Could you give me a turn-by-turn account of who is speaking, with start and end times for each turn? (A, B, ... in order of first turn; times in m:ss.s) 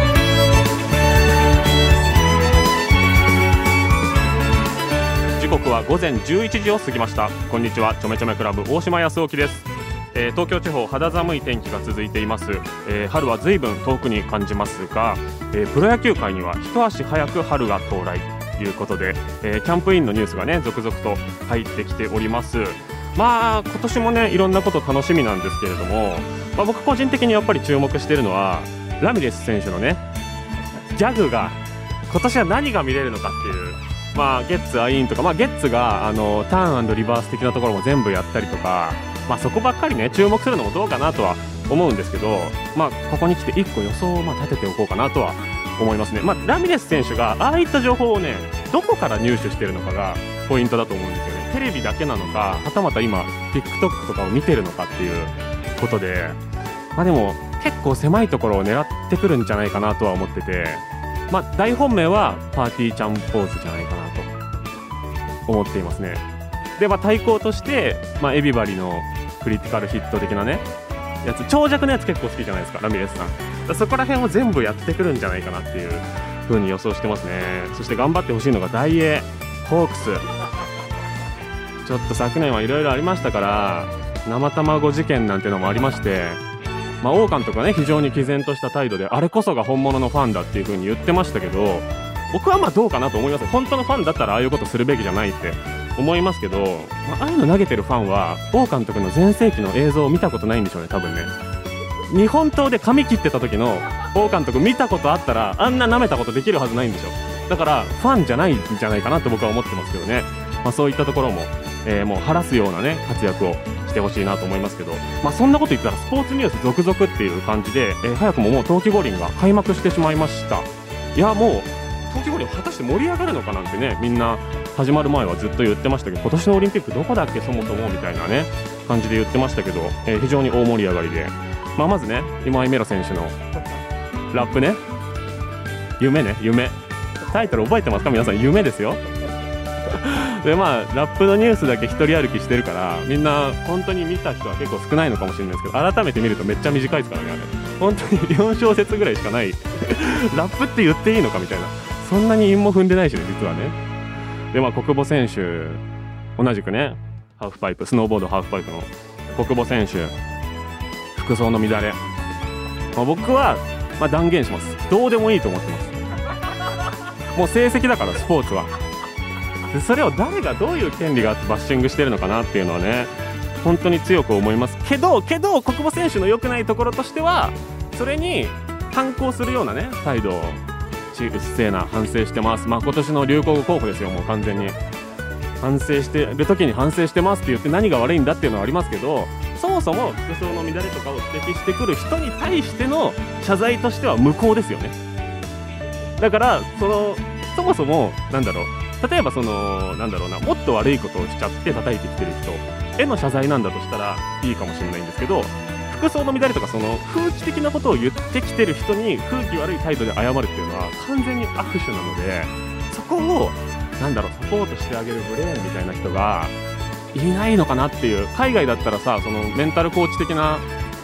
0:05.4-0:30.0 A
0:30.9-0:56.4 A
0:57.0-1:04.3 A
1:05.5-1:10.7 A
1:11.2-1:20.2 A
1:21.8-1:26.4 A
1:27.0-1:41.3 A
1:42.1-2:13.4 A
2:14.3-2:14.8 A
2:16.0-2:19.0 A
2:19.9-2:33.8 A
2:34.5-2:35.8 A
2:36.4-2:40.2 A
2:41.1-2:42.0 A
2:42.9-2:46.0 A
2:47.3-2:48.7 A
2:49.7-3:04.8 A
3:05.6-3:15.0 A
3:16.2-3:36.6 A
3:37.1-3:40.7 A